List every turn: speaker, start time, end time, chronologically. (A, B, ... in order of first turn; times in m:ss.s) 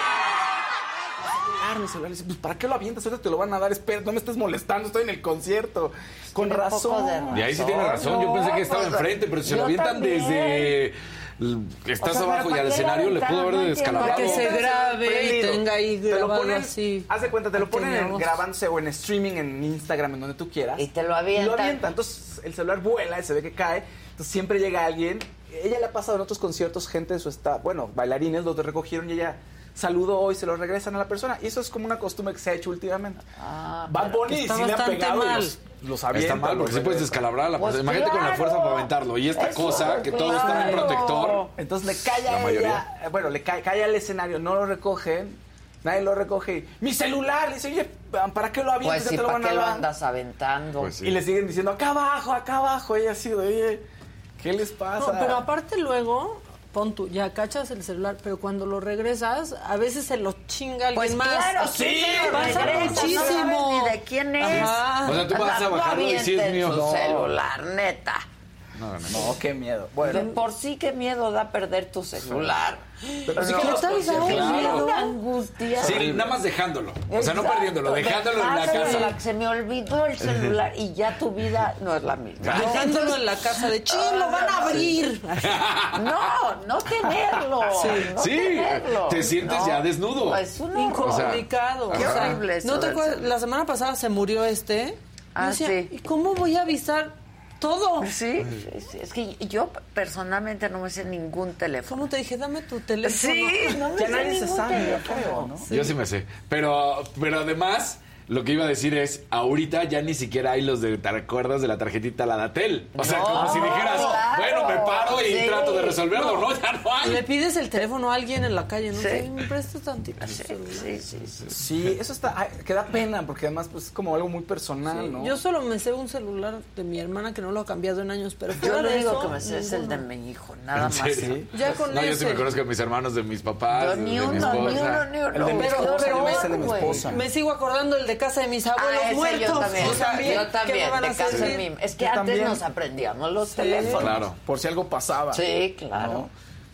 0:01.5-0:07.7 A
0:06.3-0:10.7 B
0:07.3-0:14.6 C
0:12.0-0:14.9 B
0:14.0-0:18.4 D
0:14.3-0:33.2 A
0:20.8-0:21.8 B
0:33.4-0:34.3 B
0:33.9-0:37.3 A
0:34.2-0:35.6 D
0:36.1-0:41.5 C
0:37.6-0:41.5 B
0:40.3-0:41.0 A
0:40.3-0:40.8 D
0:41.6-0:49.9 A
0:42.0-0:42.8 C
0:48.8-0:50.9 B
0:50.8-0:51.2 C
0:51.0-0:53.8 A
0:54.4-0:55.5 A
0:55.0-1:05.3 D
1:00.9-1:08.3 B
1:01.6-1:03.4 A
1:02.6-1:03.2 C
1:04.4-1:07.2 C
1:06.9-1:07.2 A
1:08.8-1:09.4 C
1:09.0-1:10.4 A
1:10.0-1:16.4 B
1:12.2-1:12.5 C
1:13.3-1:14.5 A
1:13.3-1:15.2 D
1:14.2-1:14.9 C
1:15.8-1:19.1 C
1:15.8-1:16.2 A
1:17.1-1:23.2 B
1:18.6-1:19.1 D
1:20.2-1:20.6 C
1:22.4-1:22.9 C
1:22.5-1:25.6 D
1:23.9-1:25.0 B
1:25.4-1:26.0 C
1:25.9-1:33.3 B
1:27.6-1:30.4 C
1:27.7-1:28.1 D
1:30.7-1:38.1 D
1:31.0-1:32.4 C
1:35.4-1:35.9 B
1:38.0-1:42.1 B
1:41.9-1:43.9 D
1:43.0-1:45.6 B
1:44.0-1:45.7 A
1:45.6-1:46.0 D
1:45.7-1:57.2 C
1:53.0-1:56.0 B
1:53.4-1:53.9 A
1:56.1-1:56.5 D
1:57.0-2:00.9 D
1:58.9-1:59.3 B
2:00.2-2:01.4 B
2:01.3-2:01.9 C
2:01.5-2:05.4 A
2:04.9-2:10.0 D
2:08.6-2:11.8 B
2:10.8-2:15.1 C
2:11.2-2:11.5 A
2:11.5-2:12.5 D
2:13.7-2:17.2 B
2:14.2-2:17.2 A
2:15.5-2:21.6 D
2:18.8-2:24.1 B
2:19.5-2:20.4 A
2:22.0-2:22.6 A
2:23.5-2:24.1 D
2:23.8-2:26.3 A
2:24.0-2:24.4 C
2:25.3-2:26.3 B